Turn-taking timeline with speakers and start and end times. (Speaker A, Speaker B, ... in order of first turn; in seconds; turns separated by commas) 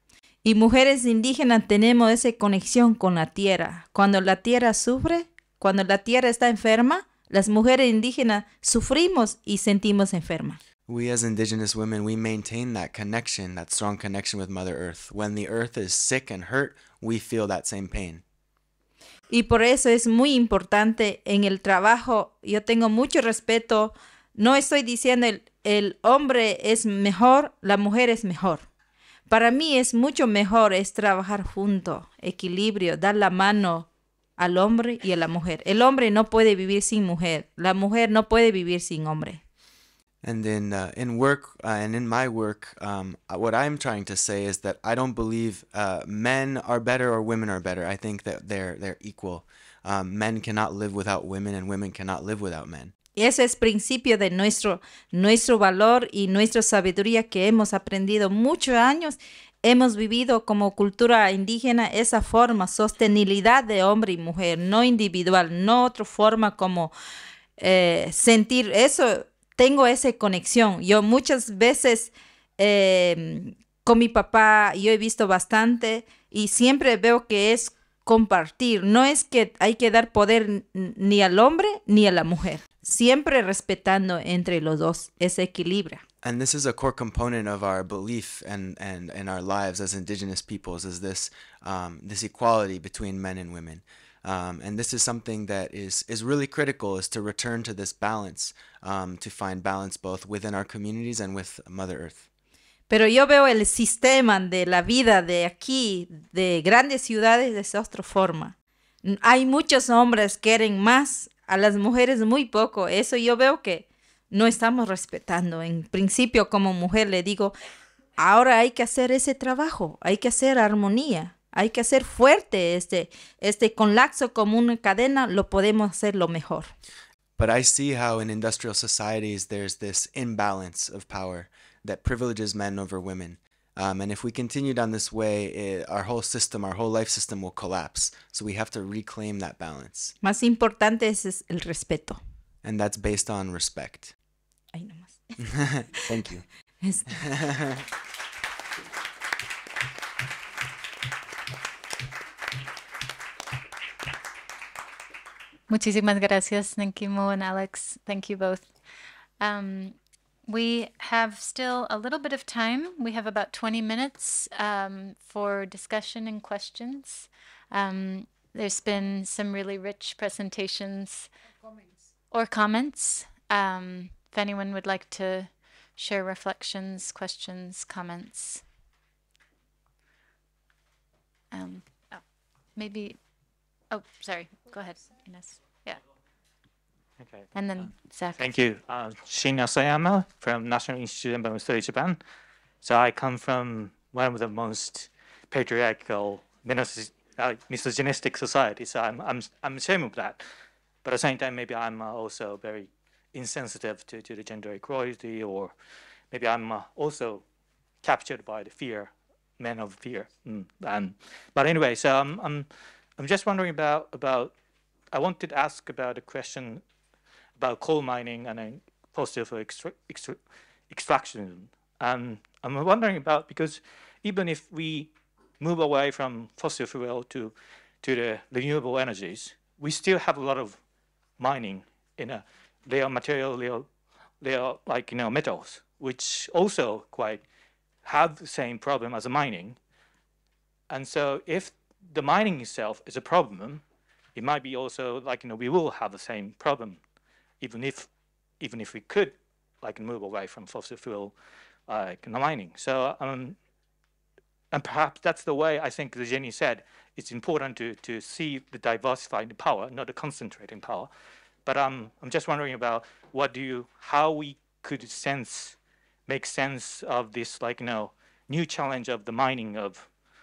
Speaker A: 0.4-10.6, Speaker B: 10.9-18.2, Speaker A: 19.3-28.6, Speaker A: 29.3-33.9, Speaker A: 34.4-39.4, Speaker B: 40.2-52.9, Speaker A: 53.1-66.9, Speaker A: 67.6-86.0, Speaker B: 86.2-102.3, Speaker A: 102.9-117.5, Speaker A: 118.2-126.7, Speaker B: 127.4-140.1, Speaker A: 140.2-142.2, Speaker B: 142.6-144.1, Speaker A: 144.7-145.2, Speaker B: 145.4-146.4, Speaker A: 146.8-147.1, Speaker B: 147.1-147.8, Speaker C: 155.7-158.7, Speaker C: 159.4-171.3, Speaker C: 172.3-178.6, Speaker C: 181.5-182.2, Speaker C: 182.7-183.2, Speaker C: 183.9-186.0, Speaker D: 187.2-187.4, Speaker C: 187.5-188.5, Speaker D: 188.4-192.2, Speaker D: 192.8-200.4, Speaker D: 201.0-205.8, Speaker D: 206.3-207.4, Speaker D: 208.0-214.5, Speaker D: 215.1-216.8, Speaker D: 217.6-230.8, Speaker D: 231.4-233.9, Speaker D: 234.4-237.4, Speaker D: 238.0-239.8, Speaker D: 240.9-243.8, Speaker D: 244.3-247.0, Speaker D: 247.6-248.1, Speaker D: 248.6-251.3, Speaker D: 251.9-253.6, Speaker D: 254.7-261.1, Speaker D: 261.6-270.1